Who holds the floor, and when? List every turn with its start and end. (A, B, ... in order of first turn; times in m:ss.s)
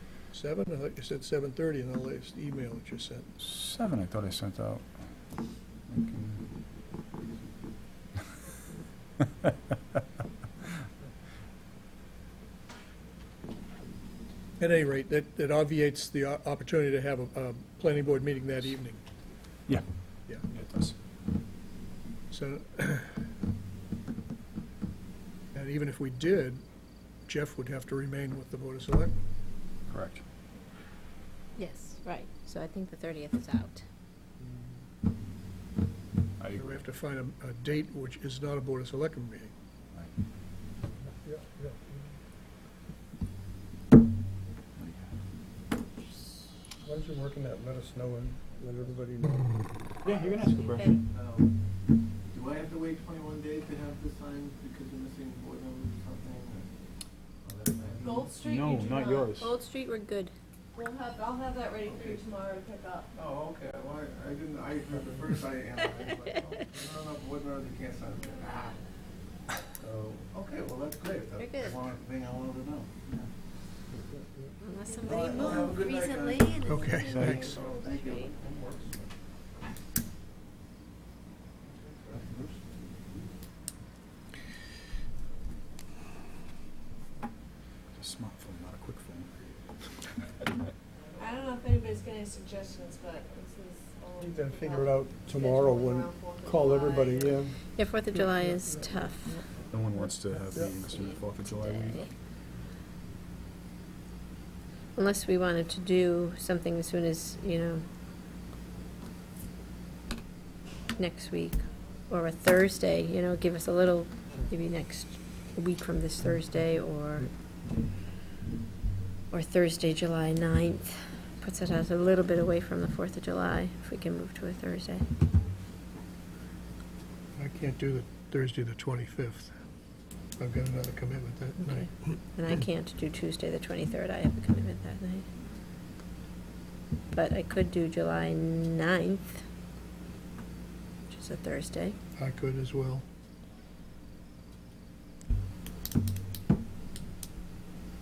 0:00.3-0:03.3 A
0:03.4-0:04.8 B
0:05.9-0:06.4 B
0:14.6-0:19.0 A
0:20.4-0:20.9 B
0:22.3-0:23.2 A
0:25.5-0:26.6 A
0:27.3-0:29.1 A
0:29.9-0:30.2 B
0:31.6-0:33.8 C
0:36.4-0:36.8 B
0:36.5-0:39.5 A
0:41.2-0:42.1 D
0:44.8-0:45.1 B
0:46.8-0:49.6 D
0:50.0-0:51.0 B
0:50.7-0:51.0 C
0:51.1-0:51.5 E
0:52.3-0:56.7 E
0:57.4-0:58.8 E
0:58.0-0:59.3 F
0:58.4-0:59.5 B
0:59.4-1:00.3 C
1:00.7-1:03.1 F
1:01.8-1:02.2 E
1:03.1-1:08.8 E
1:08.3-1:08.6 F
1:09.8-1:13.3 E
1:11.4-1:11.8 C
1:14.6-1:15.8 C
1:14.8-1:18.1 F
1:15.0-1:19.1 E
1:16.7-1:17.7 A
1:17.1-1:17.4 B
1:17.6-1:18.3 C
1:21.6-1:23.2 E
1:28.0-1:29.4 B
1:31.2-1:37.4 F
1:34.2-1:37.6 D
1:37.8-1:39.4 C
1:39.7-1:42.1 B
1:40.5-1:40.8 D
1:40.9-1:42.1 C
1:45.0-1:47.8 C
1:51.0-1:57.3 C
1:59.3-2:05.1 C
2:07.4-2:09.5 A
2:10.4-2:12.2 A
2:11.6-2:15.2 C
2:17.1-2:19.4 C
2:21.1-2:22.0 C
2:22.2-2:23.0 A